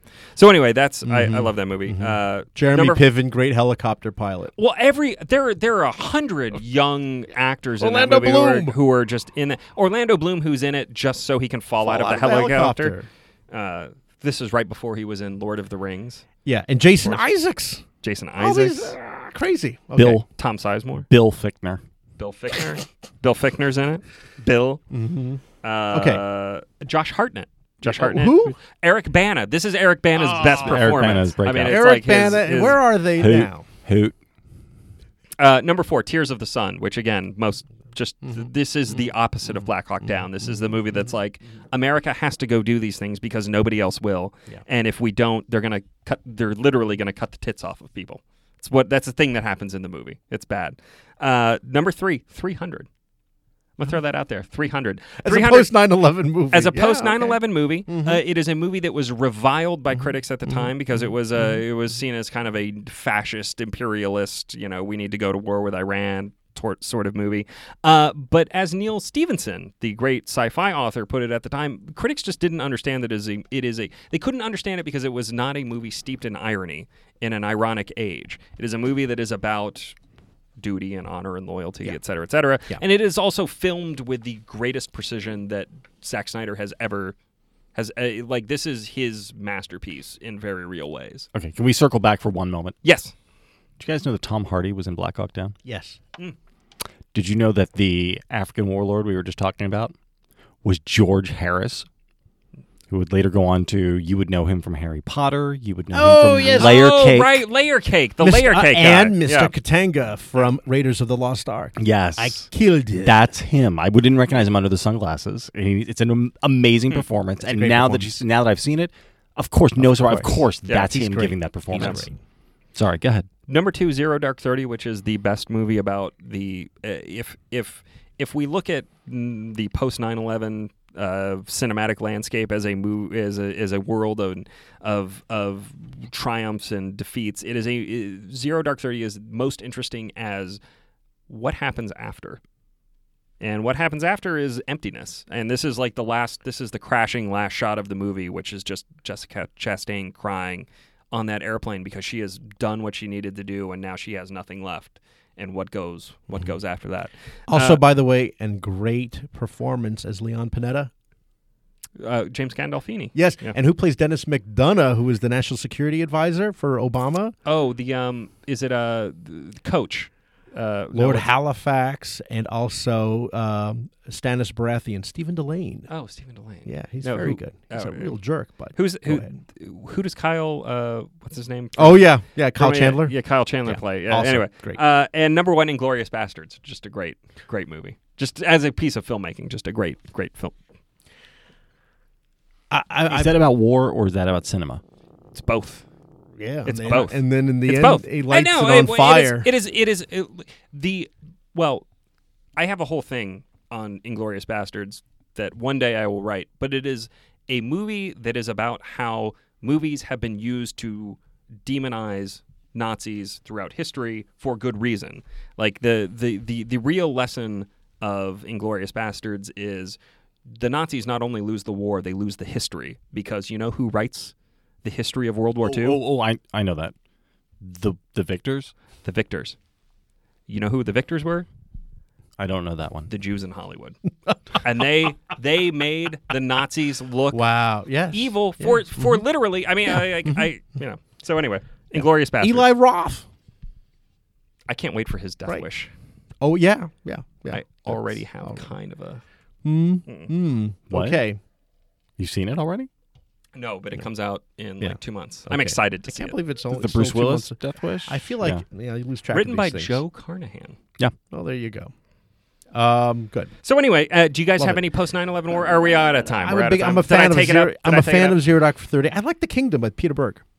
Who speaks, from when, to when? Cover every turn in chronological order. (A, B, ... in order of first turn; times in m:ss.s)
0:00.4-0:03.0 A
0:01.0-0:04.5 B
0:04.6-0:12.9 A
0:07.8-0:08.8 B
0:11.8-0:13.1 B
0:13.5-0:16.2 A
0:16.4-0:17.8 B
0:18.0-0:18.9 A
0:18.4-0:20.2 B
0:20.0-0:20.3 C
0:20.4-0:21.0 A
0:21.0-0:21.8 C
0:22.2-0:24.8 A
0:24.9-0:25.4 B
0:25.6-0:32.8 A
0:25.9-0:26.2 B
0:27.8-0:28.6 B
0:30.2-0:33.6 B
0:30.4-0:31.9 C
0:33.2-0:34.2 C
0:35.4-0:52.9 A
0:40.4-0:40.7 B
0:53.8-0:55.7 A
0:55.2-0:58.2 B
0:56.5-1:20.0 A
1:20.6-1:27.2 A
1:27.7-1:31.3 A
1:31.3-1:32.8 C
1:32.8-1:33.1 A
1:33.8-1:35.6 C
1:35.6-1:36.0 B
1:37.1-1:39.9 C
1:40.6-1:41.9 C
1:42.9-1:47.4 C
1:45.9-1:46.8 B
1:46.6-1:49.5 A
1:48.2-1:53.2 B
1:51.8-1:52.5 C
1:53.0-2:02.0 C
1:57.4-1:58.2 B
1:59.8-2:02.2 B
2:00.7-2:01.0 A
2:01.7-2:02.1 A
2:02.7-2:03.3 C
2:03.5-2:20.6 A
2:21.3-2:22.4 A
2:23.4-2:37.8 A
2:37.5-2:40.9 B
2:42.0-2:43.6 A
2:43.1-2:47.3 B
2:47.4-2:51.3 A
2:50.9-2:55.9 B
2:55.9-2:58.1 A
2:56.6-2:59.4 B
2:58.7-3:10.6 A
3:01.8-3:04.8 B
3:12.7-3:13.3 B
3:13.1-3:14.8 C
3:15.3-3:15.8 A
3:16.4-3:19.5 B
3:16.6-3:21.8 A
3:22.6-3:40.0 A
3:40.5-3:46.0 A
3:45.6-3:46.9 C
3:47.6-3:48.7 C
3:49.0-3:49.6 A
3:50.5-3:51.5 A
3:52.4-3:53.1 C
3:53.1-3:54.0 A
3:54.5-3:57.4 A
3:57.3-3:59.2 B
3:58.1-4:02.7 A
4:00.0-4:00.5 B
4:02.0-4:03.2 B
4:04.7-4:05.9 A
4:06.4-4:08.7 B
4:07.5-4:09.2 A
4:09.6-4:11.4 B
4:10.0-4:10.3 A
4:10.9-4:11.2 C
4:12.2-4:12.9 C
4:13.5-4:16.4 A
4:15.5-4:20.0 B
4:16.7-4:18.6 C
4:19.3-4:20.8 A
4:21.3-4:21.9 B
4:22.7-4:23.5 B
4:23.6-4:28.4 A
4:24.6-4:24.8 B
4:26.3-4:30.4 B